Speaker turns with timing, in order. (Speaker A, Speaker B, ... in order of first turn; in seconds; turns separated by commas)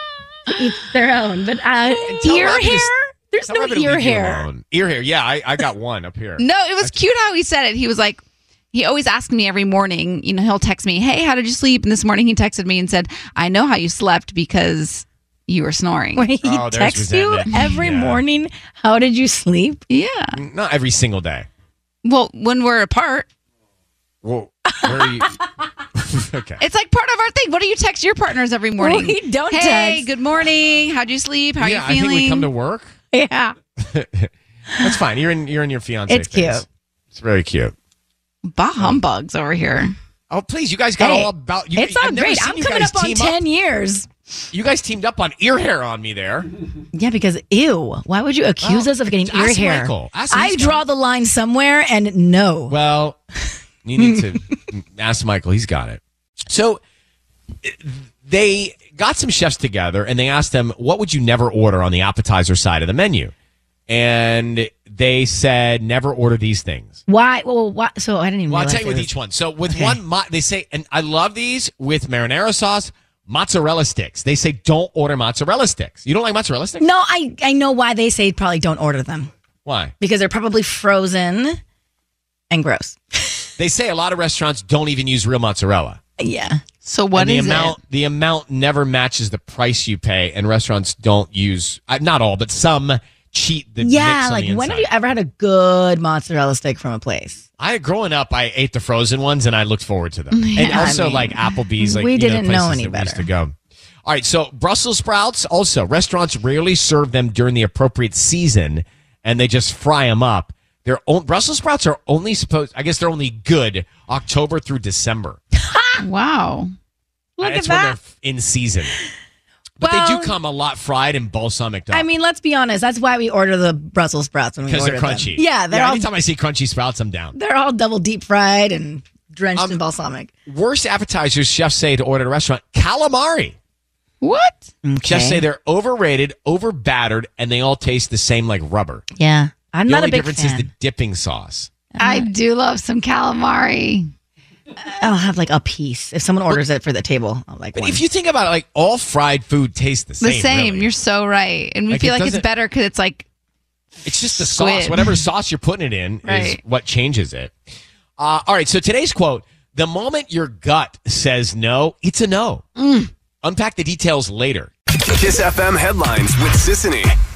Speaker A: 0.5-4.5, Speaker B: 2.0-2.9, Speaker B: 3.5-7.0, Speaker C: 6.4-8.2, Speaker C: 8.7-16.3, Speaker A: 16.1-19.9, Speaker B: 16.4-18.2, Speaker C: 19.9-20.4, Speaker B: 20.3-21.5, Speaker C: 22.1-23.3, Speaker B: 24.2-25.4, Speaker A: 24.7-25.3, Speaker B: 26.0-26.6, Speaker C: 26.6-32.5, Speaker A: 28.8-30.1, Speaker B: 31.6-33.0, Speaker A: 33.1-33.6, Speaker B: 33.8-37.7, Speaker A: 36.1-36.6, Speaker C: 38.5-40.0, Speaker B: 40.3-43.4, Speaker A: 41.0-44.1, Speaker B: 44.5-46.5, Speaker A: 46.9-52.8, Speaker B: 48.6-50.8, Speaker B: 52.7-53.2, Speaker B: 53.8-56.8, Speaker A: 54.0-54.3, Speaker B: 57.6-63.3, Speaker B: 63.9-67.0, Speaker A: 67.1-69.1, Speaker B: 68.5-76.9, Speaker A: 69.7-70.0, Speaker A: 76.8-79.3, Speaker B: 79.7-79.9, Speaker A: 80.0-81.6, Speaker A: 82.5-83.4, Speaker B: 83.6-86.0, Speaker A: 86.2-86.7, Speaker C: 86.8-87.8, Speaker B: 87.2-94.9, Speaker A: 93.8-97.5, Speaker B: 97.6-115.4, Speaker C: 100.3-101.1, Speaker A: 100.6-103.3, Speaker A: 115.7-116.0, Speaker C: 116.0-116.7, Speaker A: 117.4-118.0, Speaker B: 117.4-118.9, Speaker A: 119.8-120.3, Speaker B: 119.8-122.1, Speaker A: 121.9-126.1, Speaker B: 124.7-127.3, Speaker A: 127.3-130.3, Speaker B: 130.5-133.6, Speaker C: 134.2-134.7, Speaker A: 134.8-135.4, Speaker B: 135.0-139.1, Speaker A: 139.2-140.7, Speaker B: 139.9-141.7, Speaker A: 141.9-142.3, Speaker C: 142.0-144.1, Speaker A: 144.9-148.0, Speaker B: 147.8-150.9, Speaker C: 150.2-153.3, Speaker B: 151.9-152.5, Speaker B: 154.1-157.6, Speaker C: 154.3-155.2, Speaker C: 156.2-156.6, Speaker B: 158.2-162.7, Speaker C: 162.8-163.1, Speaker B: 163.4-164.7, Speaker D: 165.1-167.1